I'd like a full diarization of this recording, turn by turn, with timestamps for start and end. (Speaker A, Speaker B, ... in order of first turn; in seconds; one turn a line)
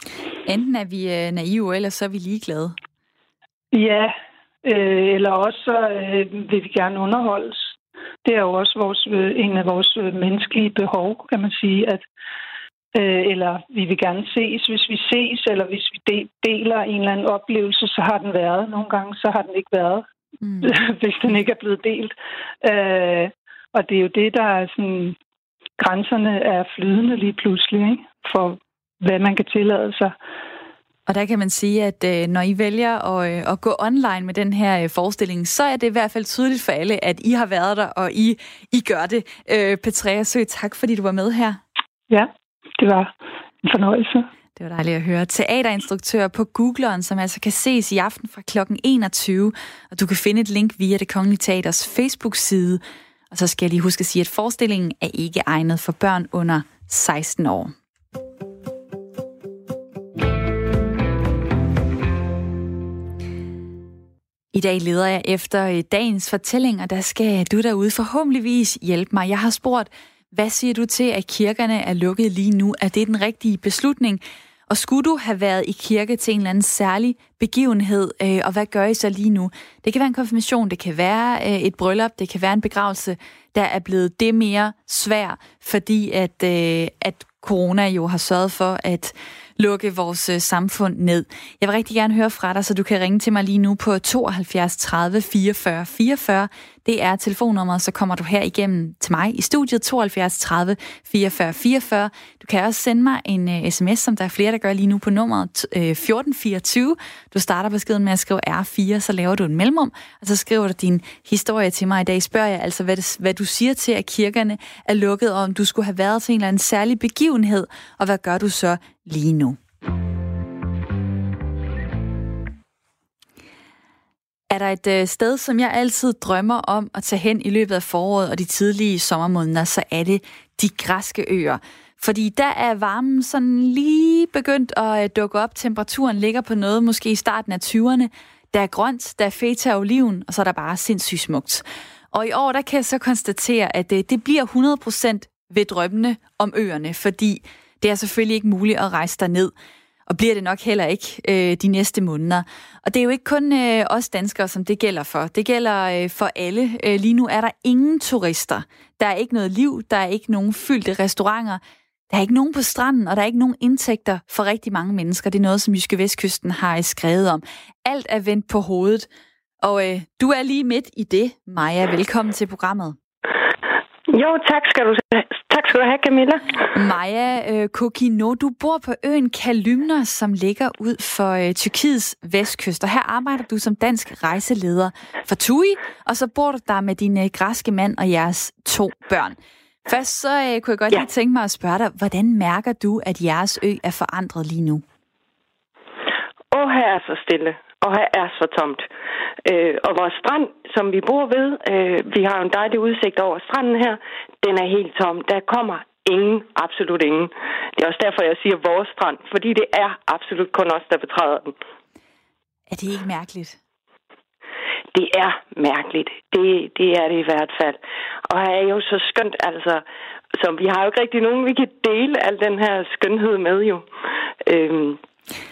Speaker A: 0.5-2.8
Speaker B: 3.7-12.1
Speaker B: 12.9-20.1
Speaker A: 20.4-20.7
Speaker B: 20.6-25.2
Speaker B: 25.8-30.2
Speaker A: 31.1-41.6
Speaker B: 42.1-44.3
Speaker A: 44.6-57.7
Speaker A: 64.5-119.6
Speaker A: 124.5-149.5
Speaker A: 150.1-169.1
Speaker A: 169.6-173.0
Speaker C: 174.1-176.5
Speaker A: 176.7-194.8
Speaker C: 196.5-198.9
Speaker C: 199.4-211.5
Speaker A: 212.7-213.6
Speaker C: 214.9-217.8
Speaker C: 218.3-219.8
Speaker C: 220.4-223.9
Speaker C: 224.4-225.0